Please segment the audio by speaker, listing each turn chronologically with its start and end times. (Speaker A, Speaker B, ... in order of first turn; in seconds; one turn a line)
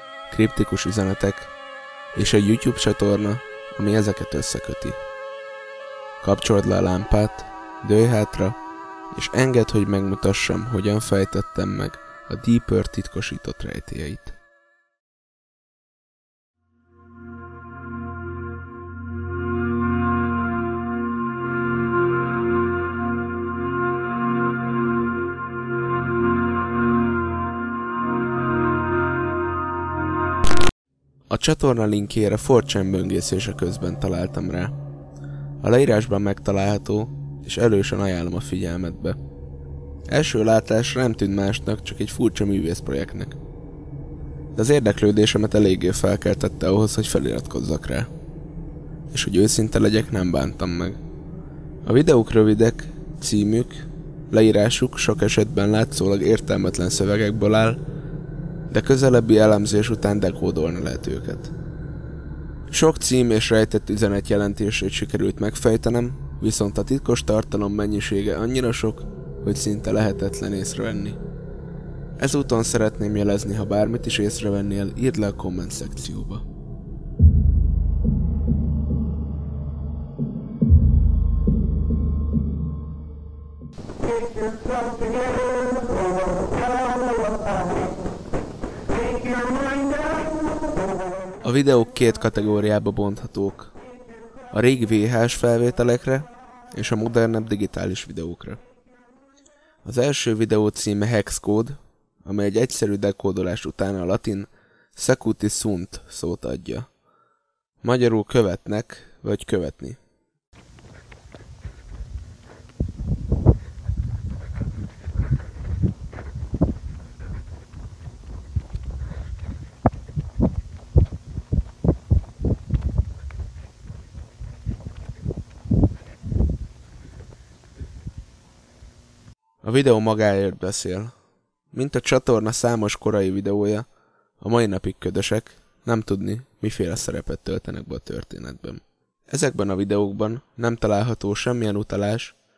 Speaker A: 0.3-1.5
Speaker A: 2.1-5.0
Speaker A: 6.2-8.6
Speaker A: 9.1-14.4
Speaker A: 31.3-34.7
Speaker A: 35.6-39.2
Speaker A: 40.1-43.4
Speaker A: 44.5-48.1
Speaker A: 49.1-51.0
Speaker A: 51.8-57.8
Speaker A: 58.7-61.5
Speaker A: 62.7-71.2
Speaker A: 72.2-76.4
Speaker A: 91.4-93.7
Speaker A: 94.5-98.6
Speaker A: 99.8-106.9
Speaker A: 107.8-110.0
Speaker A: 129.6-131.1
Speaker A: 131.7-133.9
Speaker A: 134.4-142.4